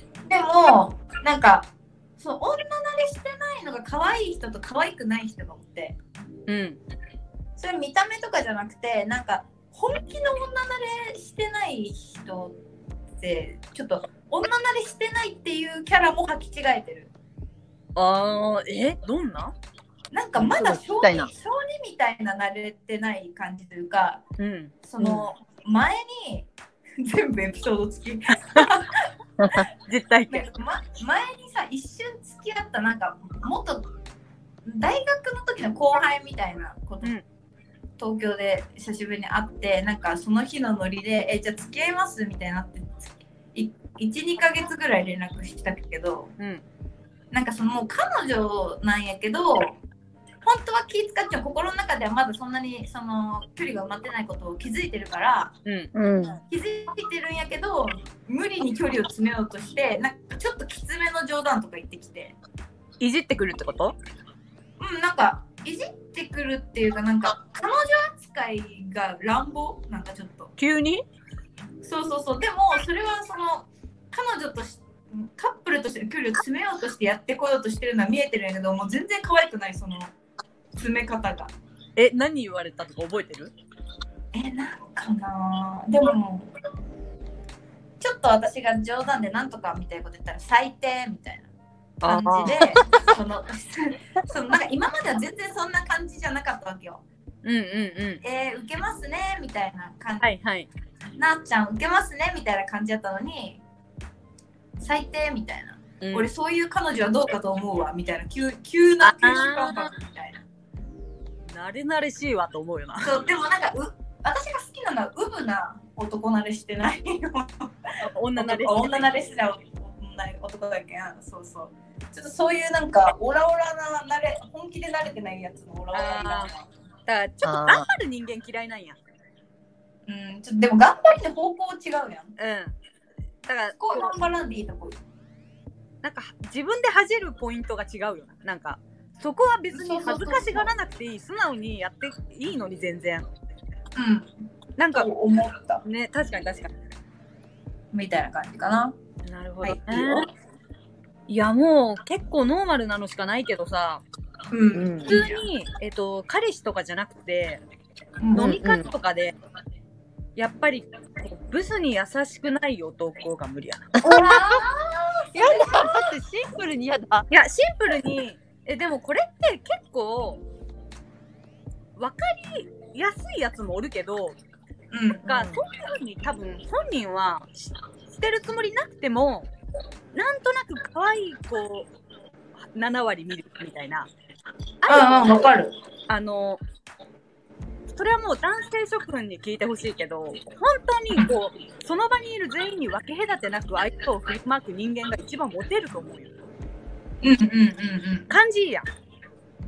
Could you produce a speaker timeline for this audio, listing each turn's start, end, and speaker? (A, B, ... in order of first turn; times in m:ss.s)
0:00.3-0:06.0 A
0:06.5-0:06.8 B
0:07.6-0:12.6 A
0:13.2-0:17.1 A
0:18.0-0:19.5 B
0:20.1-0:24.2 A
0:20.4-0:21.3 C
0:24.4-0:24.7 B
0:24.8-0:29.1 A
0:25.0-0:25.3 C
0:29.4-0:29.7 C
0:29.9-0:30.5 B
0:30.3-0:33.9 A
0:34.6-0:37.2 A
0:38.0-0:46.3 A
0:47.3-0:49.8 A
0:50.4-0:55.5 A
0:55.7-0:55.9 B
0:55.9-0:56.4 C
0:56.5-1:02.4 A
1:03.0-1:04.0 B
1:04.8-1:10.5 A
1:10.6-1:11.0 B
1:11.8-1:20.2 A
1:20.7-1:21.5 A
1:22.0-1:23.5 B
1:24.3-1:26.5 A
1:28.0-1:31.5 A
1:32.0-1:32.6 B
1:32.1-1:37.0 A
1:32.5-1:32.7 C
1:37.4-1:38.2 B
1:38.2-1:40.3 A
1:40.2-1:40.7 B
1:41.2-1:43.6 A
1:44.8-1:50.4 A
1:46.0-1:46.3 B
1:49.0-1:49.9 B
1:51.5-1:53.2 B
1:53.0-1:57.7 A
1:58.0-1:59.1 B
1:58.4-2:06.7 A
2:05.9-2:06.5 B
2:07.1-2:09.0 B
2:07.4-2:07.9 C
2:10.1-2:12.3 A
2:12.4-2:12.7 B
2:13.5-2:14.2 B
2:13.8-2:15.0 A
2:16.0-2:23.3 B
2:19.7-2:20.7 A
2:24.0-2:24.4 A
2:24.8-2:25.1 B
2:25.0-2:25.8 A
2:25.8-2:26.7 B
2:27.9-2:29.0 A
2:29.3-2:30.3 B
2:29.6-2:30.3 A
2:31.3-2:34.0 B
2:34.5-2:35.4 A
2:34.7-2:35.2 C
2:35.1-2:37.6 B
2:38.2-2:38.6 A
2:38.3-2:39.4 B
2:38.4-2:38.9 C
2:40.4-2:44.0 B
2:44.0-2:44.6 C
2:44.0-2:46.1 A
2:45.3-2:47.3 C
2:47.3-2:50.4 B
2:52.0-2:54.4 B
2:54.9-2:55.3 A
2:55.2-2:59.5 B
2:55.3-2:55.6 C
3:00.1-3:01.9 B
3:02.6-3:04.1 B
3:04.8-3:05.4 B
3:04.9-3:05.7 A
3:06.1-3:06.6 B
3:07.9-3:16.5 B
3:17.2-3:18.3 A
3:18.3-3:18.9 B